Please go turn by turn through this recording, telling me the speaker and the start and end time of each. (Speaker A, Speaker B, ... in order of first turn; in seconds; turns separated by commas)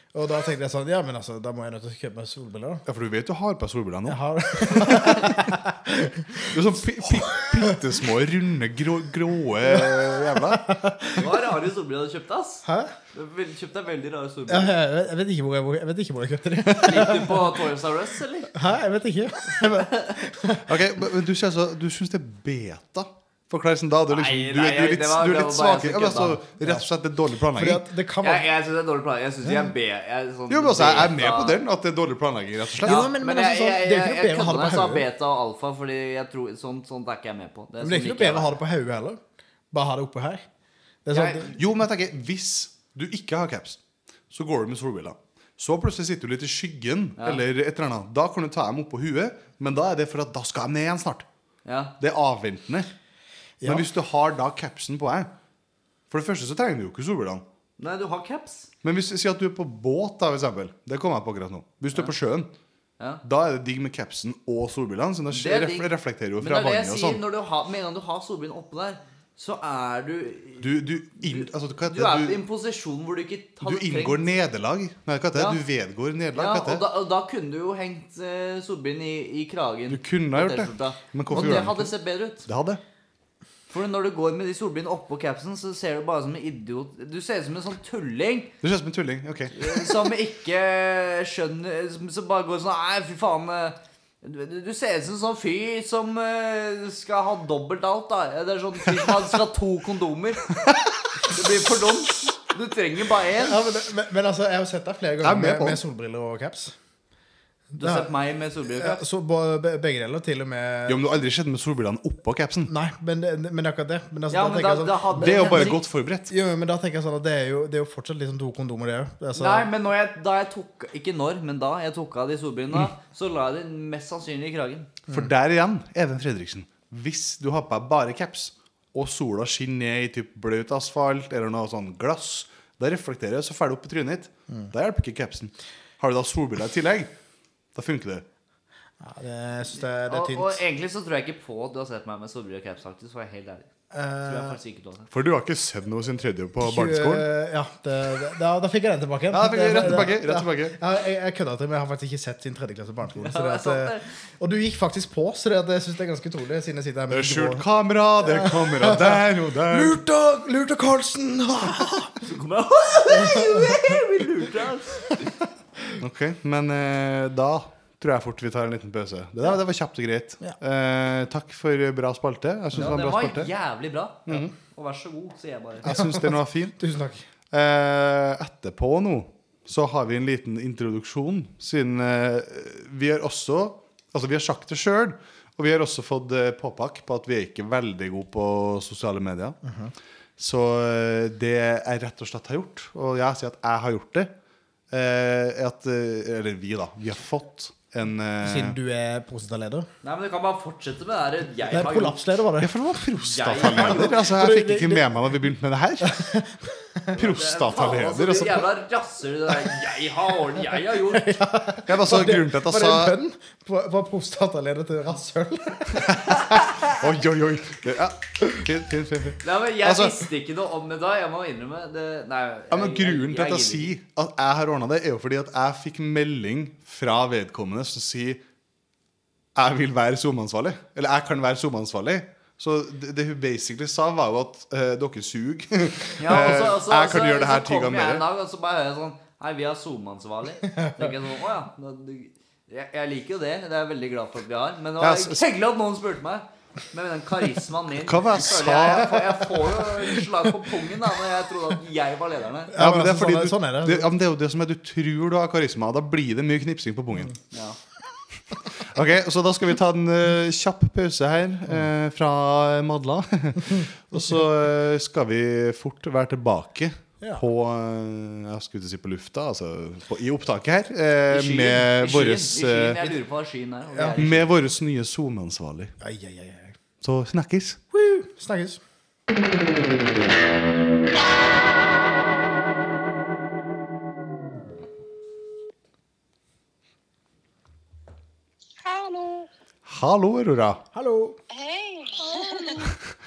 Speaker A: 0.1-2.8, Speaker B: 2.9-5.4, Speaker A: 4.1-7.8, Speaker B: 6.5-10.7, Speaker A: 9.6-11.4, Speaker C: 11.2-14.7, Speaker A: 12.7-12.9, Speaker A: 14.5-17.6, Speaker C: 16.7-18.5, Speaker A: 18.5-20.8, Speaker C: 19.6-20.1, Speaker B: 20.7-27.8, Speaker C: 24.1-26.4, Speaker A: 27.5-28.5, Speaker C: 28.2-31.6, Speaker B: 30.5-33.1, Speaker A: 32.8-35.1, Speaker C: 32.9-38.5, Speaker A: 37.8-40.5, Speaker A: 41.0-41.5, Speaker C: 41.1-41.5, Speaker B: 41.5-51.3, Speaker C: 47.2-47.4, Speaker C: 51.7-52.0, Speaker B: 52.0-52.9, Speaker A: 53.6-53.9, Speaker B: 53.6-55.3, Speaker B: 56.1-57.4, Speaker C: 57.8-58.7, Speaker B: 58.8-62.5, Speaker B: 63.2-67.2, Speaker C: 65.3-74.2, Speaker B: 70.6-72.4, Speaker B: 73.6-76.8, Speaker C: 75.3-75.6, Speaker C: 76.4-82.5, Speaker B: 79.9-81.9, Speaker B: 82.5-82.8, Speaker C: 83.7-88.5, Speaker B: 88.6-89.8, Speaker C: 89.5-100.5, Speaker C: 101.3-103.6, Speaker A: 103.4-106.8, Speaker B: 105.2-105.8, Speaker A: 107.7-108.1, Speaker C: 107.8-109.0, Speaker A: 108.8-111.0, Speaker B: 110.9-112.7, Speaker A: 112.7-119.7, Speaker C: 114.3-115.8, Speaker B: 115.2-116.3, Speaker C: 119.4-124.9, Speaker B: 125.1-137.1, Speaker B: 137.8-138.2, Speaker A: 139.0-140.6, Speaker C: 139.8-143.7, Speaker A: 143.9-144.6, Speaker C: 144.2-145.1, Speaker B: 145.1-147.3, Speaker A: 146.6-157.7, Speaker B: 149.3-150.8, Speaker C: 153.2-154.1, Speaker B: 157.1-160.0, Speaker A: 158.2-162.2, Speaker C: 162.2-165.3, Speaker A: 163.1-164.0, Speaker B: 166.0-173.5, Speaker C: 172.8-175.9, Speaker B: 174.3-174.5, Speaker B: 175.8-176.8, Speaker A: 175.9-177.3, Speaker B: 177.5-189.6, Speaker A: 189.6-189.9, Speaker B: 190.4-194.3, Speaker B: 194.9-198.8, Speaker A: 198.4-199.9, Speaker C: 200.0-202.2, Speaker A: 201.7-202.7, Speaker B: 202.6-206.3, Speaker C: 203.2-204.2, Speaker A: 203.6-205.1, Speaker A: 206.0-207.2, Speaker B: 207.2-208.7, Speaker C: 207.2-211.4, Speaker A: 210.6-216.2, Speaker B: 211.9-213.2, Speaker B: 216.1-220.2, Speaker C: 219.4-223.9, Speaker B: 222.7-228.4, Speaker B: 229.6-238.2, Speaker C: 236.2-252.8, Speaker A: 240.8-241.1, Speaker B: 245.0-245.4, Speaker B: 248.0-249.5, Speaker A: 252.7-254.1, Speaker B: 252.8-257.4, Speaker C: 257.5-257.8, Speaker B: 258.8-273.0, Speaker C: 271.3-274.5, Speaker A: 273.9-274.2, Speaker B: 274.2-275.9, Speaker A: 276.0-276.8, Speaker B: 277.0-278.0, Speaker A: 278.0-278.8, Speaker D: 288.8-289.5, Speaker B: 289.9-290.8, Speaker A: 290.9-291.4, Speaker D: 291.5-292.9